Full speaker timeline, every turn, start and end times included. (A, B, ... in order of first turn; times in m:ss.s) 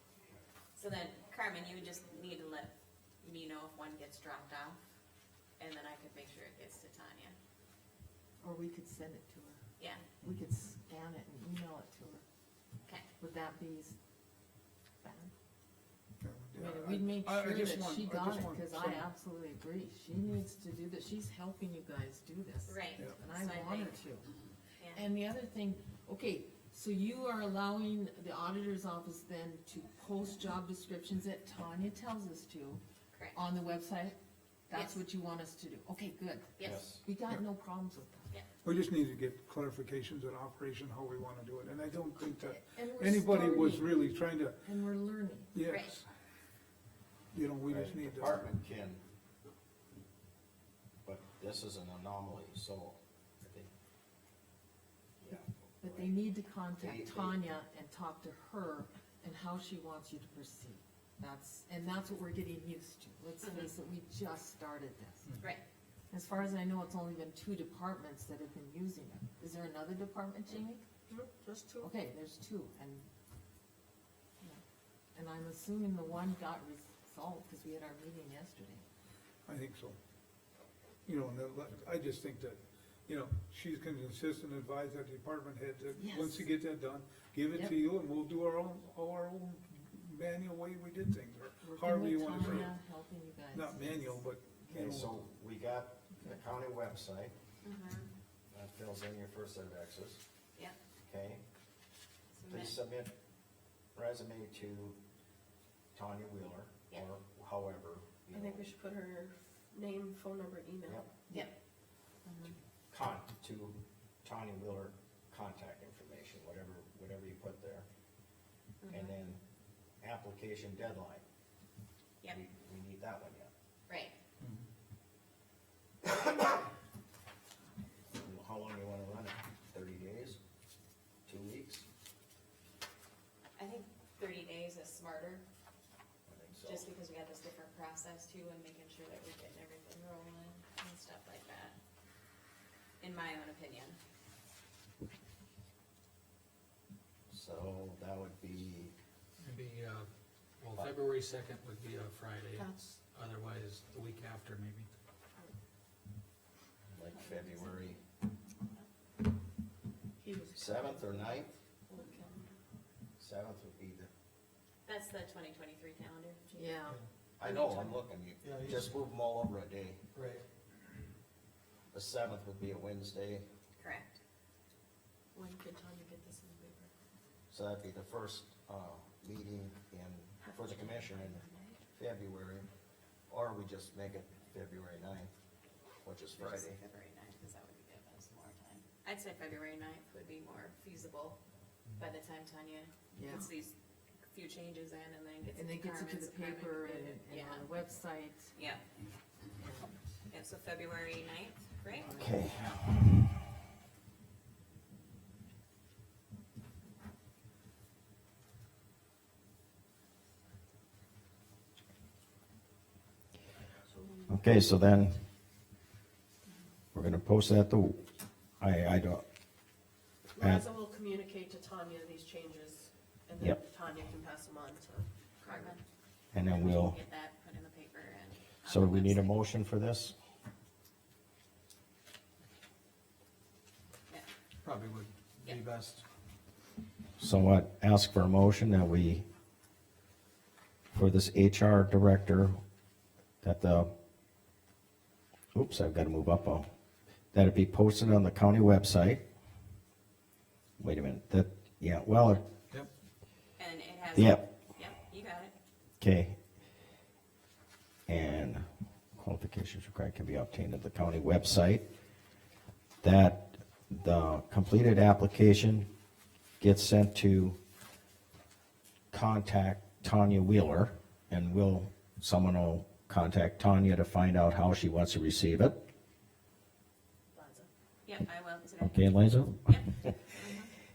0:00.7-0:04.8 A
0:05.6-0:07.4 A
0:08.4-0:09.6 B
0:10.2-0:12.2 B
0:13.2-0:13.9 B
0:15.0-0:15.3 B
0:16.2-0:19.1 C
0:16.5-0:24.3 B
0:22.6-0:24.0 A
0:24.8-0:25.1 A
0:24.9-0:32.8 B
0:33.1-0:33.4 A
0:33.3-0:34.2 B
0:34.7-0:38.3 B
0:34.7-0:35.0 A
0:36.6-0:36.9 A
0:36.6-0:37.0 D
0:38.6-0:44.6 C
0:42.2-0:44.0 B
0:44.6-0:45.5 B
0:45.5-0:46.1 C
0:45.6-0:46.0 A
0:47.3-0:48.4 C
0:47.7-0:49.0 D
0:51.0-0:53.7 D
0:55.2-0:56.1 D
0:55.8-1:05.2 B
0:56.8-0:57.4 D
1:03.4-1:03.7 A
1:06.1-1:10.8 B
1:11.1-1:11.9 E
1:11.8-1:13.0 B
1:15.1-1:18.8 B
1:19.4-1:20.0 C
1:21.0-1:32.7 C
1:26.0-1:26.5 B
1:27.5-1:27.8 B
1:31.6-1:34.2 B
1:33.5-1:35.1 C
1:34.7-1:37.3 D
1:36.1-1:36.4 B
1:37.6-1:38.1 A
1:38.5-1:40.2 D
1:41.0-1:41.4 D
1:42.4-1:42.7 A
1:42.5-1:43.1 D
1:43.9-1:45.0 D
1:45.9-1:48.7 D
1:48.3-1:51.0 E
1:52.2-1:52.6 A
1:52.9-1:57.9 D
1:58.8-1:59.2 A
1:58.9-1:59.4 D
2:00.0-2:01.2 D
2:02.3-2:03.5 D
2:03.9-2:04.1 A
2:08.1-2:10.4 D
2:11.2-2:11.8 D
2:13.6-2:15.4 A
2:16.3-2:16.9 D
2:16.6-2:21.8 A
2:23.0-2:24.0 A
2:27.3-2:28.9 D
2:29.4-2:30.1 F
2:30.6-2:34.9 F
2:32.5-2:33.0 E
2:36.9-2:38.0 D
2:40.2-2:42.5 E
2:40.5-2:41.5 D
2:43.2-2:44.1 D
2:44.8-2:46.7 A
2:46.5-2:47.0 B
2:47.4-2:50.0 D
2:47.4-2:47.9 A
2:48.4-2:48.9 F
2:50.1-2:50.4 F
2:51.9-2:53.4 D
2:53.8-2:54.2 A
2:55.3-2:56.9 E
2:57.5-3:01.4 D
3:00.4-3:01.7 E
3:01.9-3:02.7 D
3:03.3-3:05.3 D
3:06.0-3:06.8 D
3:06.3-3:11.4 A
3:12.0-3:13.7 A
3:13.1-3:13.5 B
3:14.2-3:17.8 A
3:15.5-3:18.6 B
3:18.5-3:18.8 A
3:19.5-3:20.0 B
3:20.3-3:22.1 A
3:21.9-3:22.8 B
3:22.1-3:23.3 D
3:34.3-3:35.2 D
3:36.9-3:38.0 D
3:38.6-3:39.2 D
3:40.4-3:45.1 E
3:40.4-3:40.6 D
3:45.4-3:45.8 A
3:46.3-3:47.0 D
3:46.4-3:49.4 A
3:48.6-3:50.1 D
3:54.6-3:56.0 F
3:57.2-3:59.2 D
4:00.9-4:02.6 D
4:03.4-4:03.9 D
4:05.5-4:06.7 D
4:07.3-4:09.2 D
4:10.8-4:12.4 D
4:13.6-4:15.5 A
4:14.1-4:14.4 D
4:16.0-4:16.4 D
4:18.1-4:21.8 D
4:23.0-4:25.9 D
4:26.6-4:27.6 D
4:29.1-4:35.8 D
4:37.3-4:37.7 E
4:38.0-4:40.7 A
4:38.8-4:40.2 D